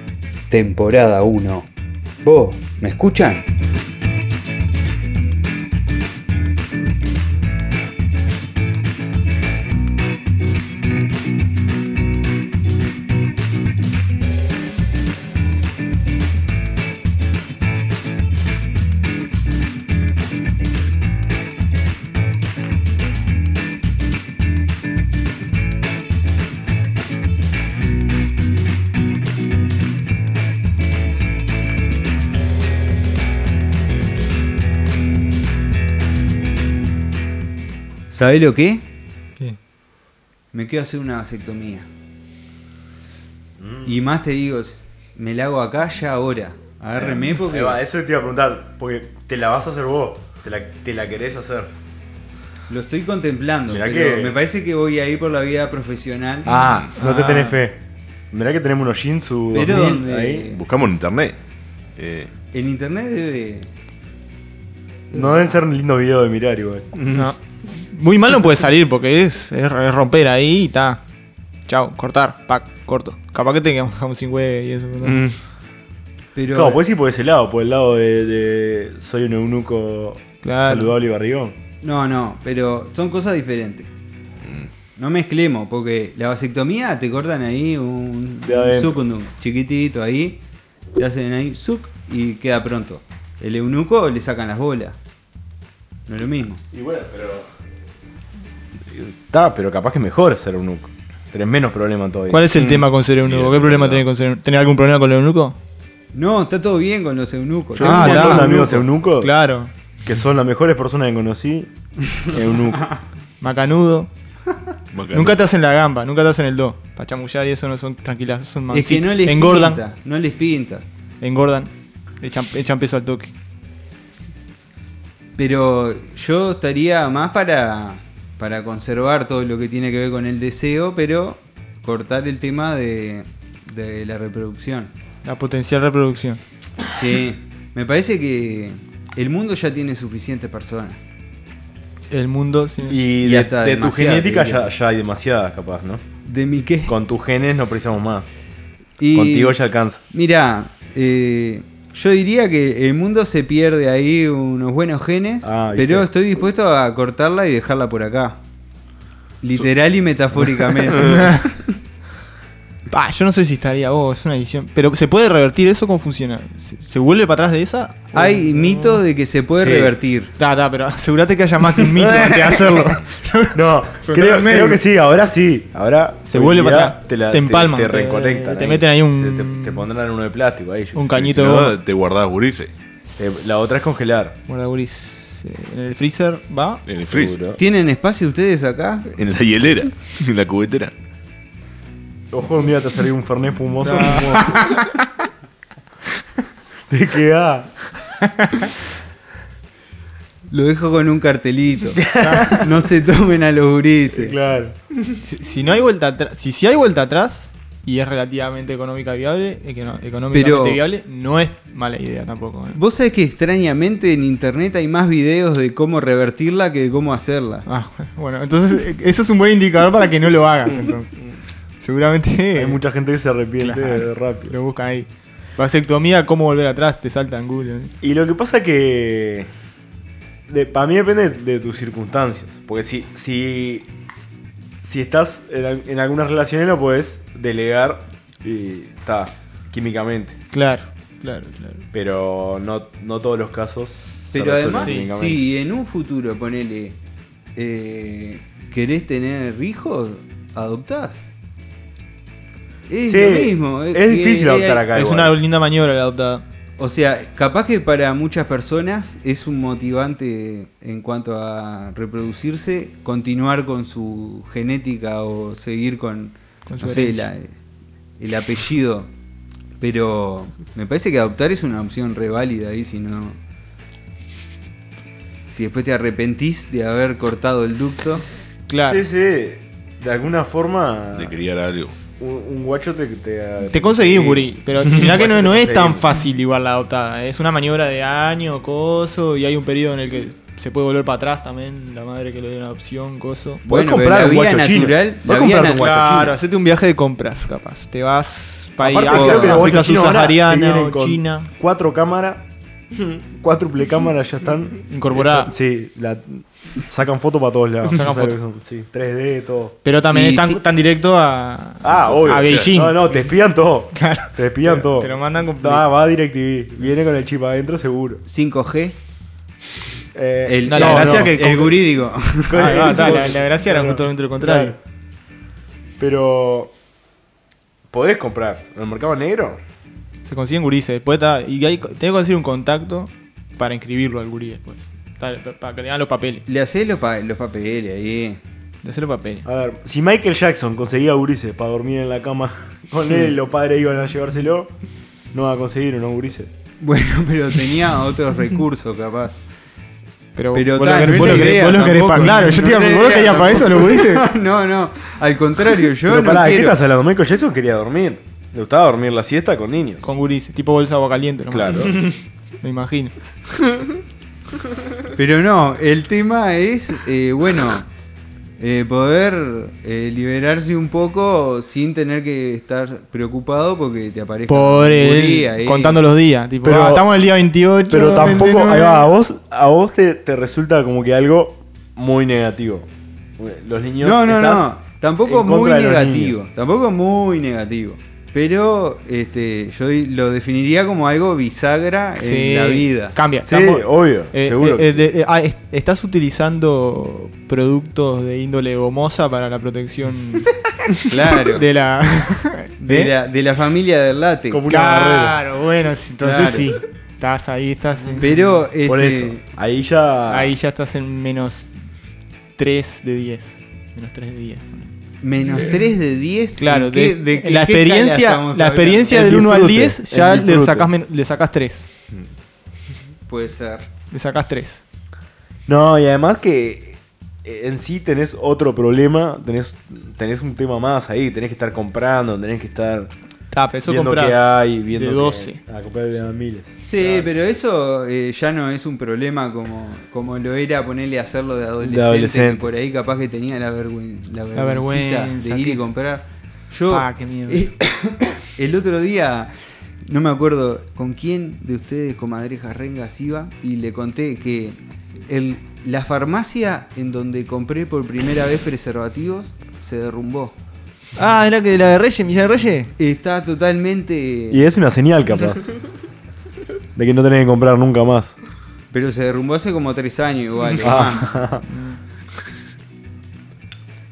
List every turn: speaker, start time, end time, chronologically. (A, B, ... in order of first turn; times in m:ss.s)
0:00.5-0:01.7 A
0:02.2-0:03.4 A
0:38.1-0:38.8 A
0:40.5-0:41.9 A
0:43.6-0:44.0 B
0:43.8-0:47.8 A
0:47.0-0:51.7 B
0:52.7-0:56.5 A
0:53.7-0:54.4 B
0:56.5-0:56.9 C
0:56.5-0:57.8 B
0:57.0-0:57.6 D
0:58.3-1:00.5 B
0:59.5-1:00.6 A
1:00.5-1:01.4 C
1:02.0-1:02.3 C
1:02.5-1:03.7 A
1:05.1-1:05.5 A
1:05.1-1:06.9 B
1:07.0-1:07.3 C
1:07.1-1:11.0 D
1:11.7-1:15.3 D
1:15.0-1:15.4 C
1:16.3-1:16.8 A
1:16.5-1:21.6 B
1:20.4-1:20.9 D
1:21.8-1:23.9 A
1:24.4-1:24.7 C
1:25.0-1:30.4 A
1:28.4-1:29.0 B
1:31.0-1:35.0 A
1:36.1-1:36.6 A
1:36.7-1:37.5 B
1:38.9-1:42.5 B
1:42.3-1:45.6 D
1:42.5-1:44.0 C
1:46.1-1:48.8 A
1:47.7-1:49.3 B
1:47.8-1:49.7 D
1:50.0-1:52.9 B
1:53.4-1:54.1 D
1:54.9-1:55.4 C
1:55.1-1:59.8 D
1:58.7-2:00.9 A
2:01.2-2:03.3 D
2:05.4-2:14.9 A
2:15.2-2:16.4 D
2:16.9-2:21.0 A
2:22.1-2:23.0 D
2:22.8-2:26.0 B
2:23.2-2:24.7 A
2:26.2-2:27.0 A
2:26.9-2:28.3 B
2:29.0-2:38.4 A
2:29.1-2:30.0 B
2:35.4-2:36.1 B
2:39.4-2:41.4 A
2:40.8-2:41.2 C
2:41.0-2:41.3 D
2:42.9-2:49.0 D
2:48.1-2:50.3 A
2:49.6-2:49.9 B
2:50.4-2:54.8 D
2:52.0-2:53.0 B
2:53.5-3:01.2 B
2:56.3-2:59.8 D
3:01.0-3:01.8 D
3:01.1-3:02.7 C
3:03.2-3:04.4 B
3:04.5-3:06.8 D
3:06.9-3:07.4 C
3:07.1-3:07.6 B
3:07.6-3:09.1 A
3:09.1-3:10.9 C
3:12.3-3:14.8 B
3:13.8-3:14.9 D
3:16.9-3:17.8 B
3:18.4-3:18.7 D
3:20.5-3:24.4 A
3:22.0-3:22.7 B
3:22.2-3:22.6 D
3:24.1-3:24.8 B
3:25.2-3:32.8 D
3:30.3-3:30.8 A
3:32.7-3:37.7 A
3:37.7-3:42.8 D
3:42.6-3:44.6 B
3:43.6-3:47.9 D
3:48.0-3:49.5 B
3:50.5-3:53.9 B
3:54.8-4:00.4 B
4:00.5-4:01.9 D
4:01.9-4:05.4 B
4:04.3-4:07.0 A
4:04.7-4:05.1 D
4:07.6-4:11.3 A
4:12.9-4:14.8 A
4:13.0-4:15.4 B
4:14.9-4:16.4 D
4:16.8-4:27.6 A
4:26.7-4:27.3 D
4:28.2-4:29.1 A
4:29.8-4:33.4 A
4:35.5-4:38.2 A
4:38.7-4:39.0 D
4:38.8-4:41.4 B
4:41.2-4:42.0 C
4:42.1-4:46.0 B
4:43.7-4:53.6 D
4:53.6-4:56.4 B
4:53.7-4:56.2 A
4:55.6-5:01.5 D
4:58.8-4:59.7 A
4:59.0-5:02.5 B
5:03.3-5:09.8 B
5:04.9-5:05.5 D
5:07.9-5:08.4 D
5:09.8-5:13.2 D
5:10.1-5:10.6 A
5:11.8-5:18.2 B
5:11.8-5:12.8 C
5:13.9-5:15.9 D
5:18.3-5:19.0 A
5:20.1-5:21.8 B
5:20.4-5:23.2 A
5:20.6-5:21.8 D
5:22.5-5:24.8 B
5:22.5-5:24.8 D
5:26.0-5:26.7 B
5:27.9-5:29.6 B
5:30.2-5:36.4 D
5:36.5-5:38.4 A
5:38.8-5:39.4 D
5:39.4-5:44.7 B
5:45.3-5:46.5 B
5:46.8-5:49.4 A
5:50.4-5:54.3 D
5:50.5-5:56.8 A
5:51.2-5:51.7 B
5:56.1-6:00.1 B
6:00.0-6:03.4 D
6:01.5-6:02.0 B
6:05.2-6:07.9 A
6:08.6-6:16.0 A
6:14.5-6:19.1 D
6:16.6-6:17.1 B
6:17.9-6:24.7 B
6:24.0-6:33.2 A
6:25.2-6:26.4 B
6:32.2-6:43.1 D
6:33.4-6:35.0 B
6:41.1-6:41.6 A
6:42.8-6:44.7 A
6:44.5-6:45.4 B
6:44.7-6:48.3 D
6:46.2-6:46.7 A
6:48.2-6:49.4 A
6:48.8-6:50.6 B
6:50.3-6:51.7 D
6:52.6-6:54.9 D
6:55.2-6:59.6 A
6:56.6-7:01.9 D
6:59.1-7:00.9 B
7:03.3-7:03.9 A
7:04.1-7:04.8 D
7:05.7-7:13.1 B
7:13.5-7:15.6 D
7:13.8-7:16.7 B
7:16.8-7:40.5 A
7:17.0-7:17.3 D
7:21.8-7:22.7 B
7:24.6-7:25.8 D
7:26.9-7:27.7 D
7:41.2-7:42.9 D
7:43.0-7:44.7 A
7:44.5-7:45.7 B
7:47.0-7:48.4 B
7:48.9-7:51.4 A
7:50.8-7:51.6 B
7:51.7-7:52.0 D